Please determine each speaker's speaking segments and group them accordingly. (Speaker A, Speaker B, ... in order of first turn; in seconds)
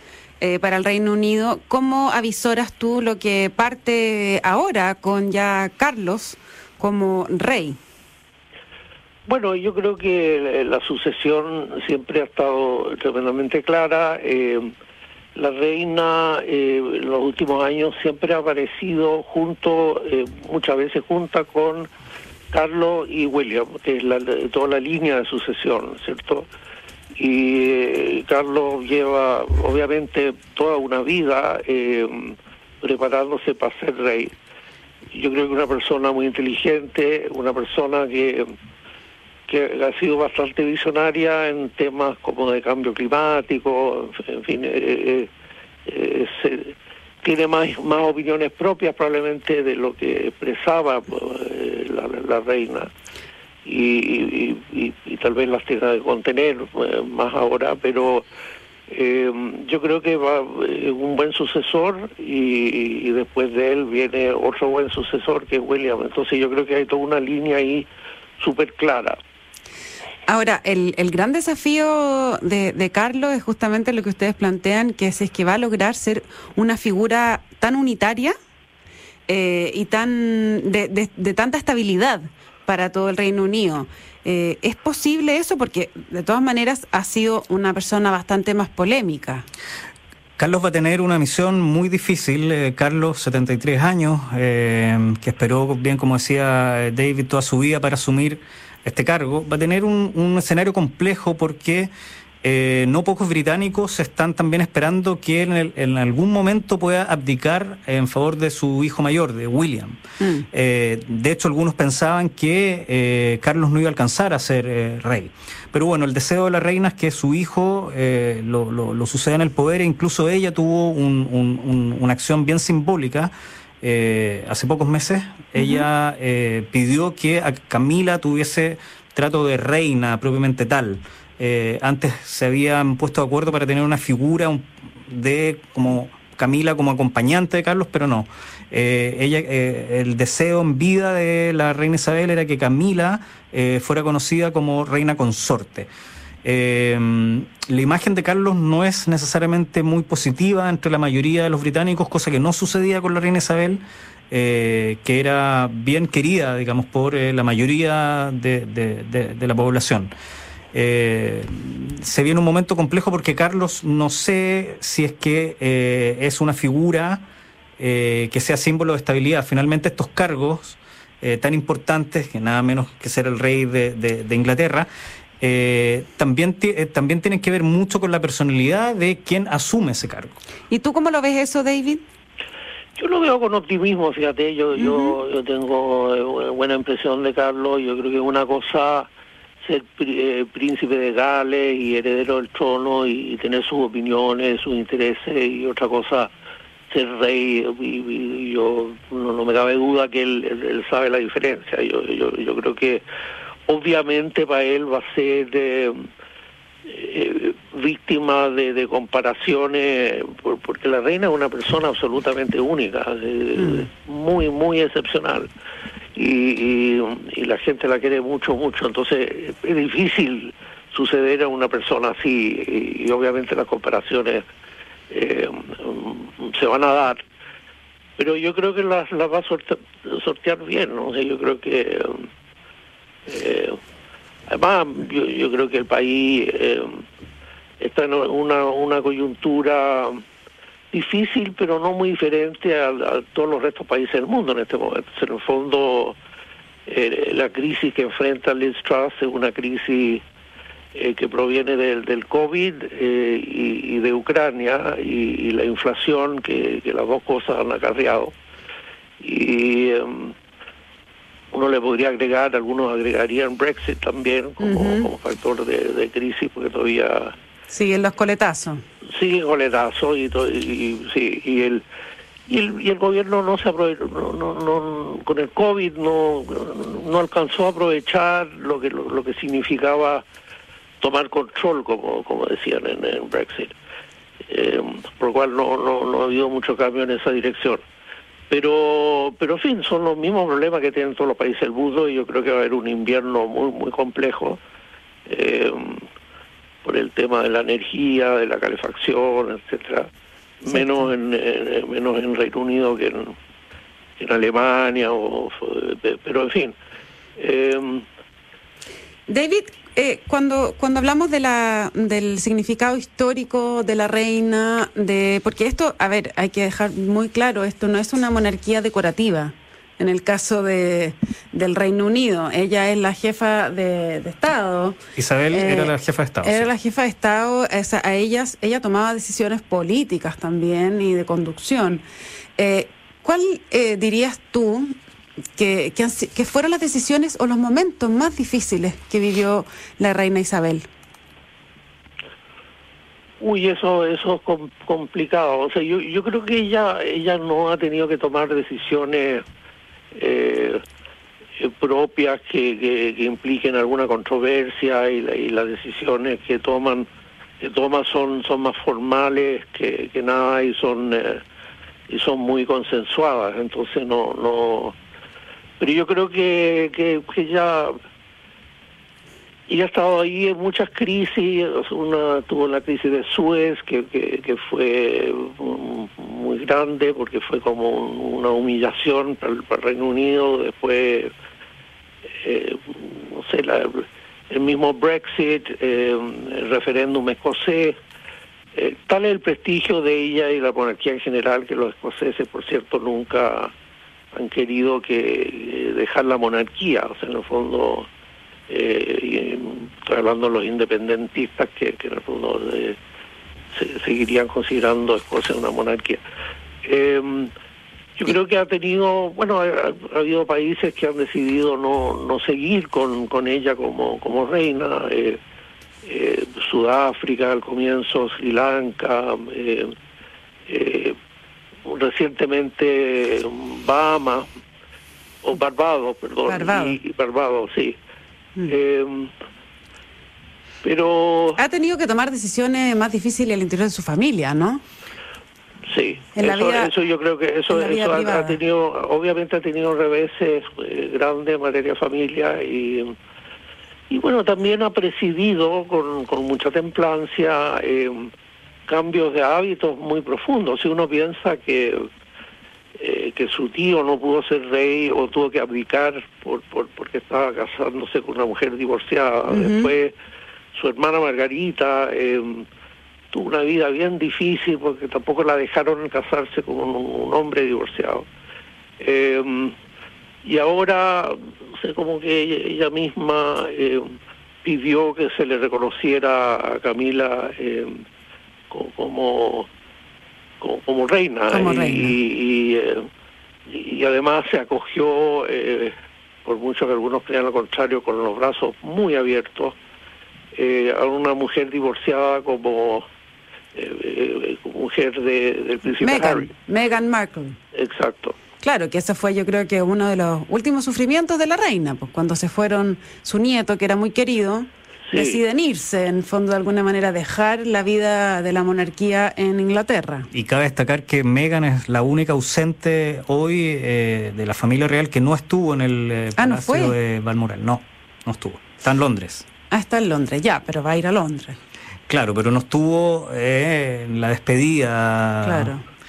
Speaker A: 0.4-7.8, 70.3-78.3, 79.3-89.5, 110.2-110.5, 125.6-125.9, 180.7-182.0, 184.8-185.2, 213.6-213.9, 264.6-265.1, 267.7-268.8, 300.7-301.1, 309.3-325.0, 325.5-332.0, 332.6-334.9, 335.6-340.9, 426.5-427.0, 431.6-434.8, 436.4-436.9, 437.7-438.6, 459.5-459.9, 481.5-482.2, 496.0-497.6, 498.6-510.3, 516.4-517.0, 519.7-521.6, 525.4-525.8
Speaker B: 9.2-14.7, 15.3-21.9, 22.5-26.5, 27.1-34.3, 35.1-38.5, 39.5-45.3, 45.9-52.9, 53.6-58.2, 58.9-67.9, 68.4-69.2, 183.0-189.1, 189.6-196.3, 196.9-203.0, 203.7-206.1, 206.9-215.5, 216.2-224.4, 225.1-227.2, 228.2-232.3, 233.3-233.8, 234.5-237.0, 237.8-240.2, 240.9-246.2, 246.9-250.2, 250.9-258.3, 259.2-260.4, 261.5-267.3, 269.1-271.8, 272.5-280.2, 281.0-283.7, 284.5-287.8, 288.5-294.6, 295.3-296.1, 296.8-300.1, 300.6-303.4, 304.2-306.8, 307.4-308.1, 343.4-349.4, 350.1-350.8, 351.6-357.1, 357.6-361.4, 362.1-365.0, 365.8-368.0, 369.7-381.3, 382.4-388.0, 388.8-393.7, 394.3-398.1, 398.7-403.0, 403.7-406.2, 406.8-407.5, 408.2-415.4, 416.0-419.9, 420.7-421.1, 421.9-424.5, 425.4-428.0, 428.7-429.3, 430.8-431.6, 435.9-443.1, 444.1-448.3, 448.9-452.1, 453.0-460.1, 460.7-462.7, 463.3-468.3, 469.0-469.8, 470.4-474.1, 474.6-478.0, 478.7-479.7, 480.6-483.1, 483.7-485.9, 486.4-489.8, 490.5-493.1, 493.7-496.5, 497.7-498.4, 505.1-505.4
Speaker C: 90.4-101.9, 102.4-110.0, 110.5-145.9, 146.4-160.1, 160.7-167.2, 167.8-174.9, 175.4-180.4, 325.2-326.7, 510.3-519.5, 522.1-525.7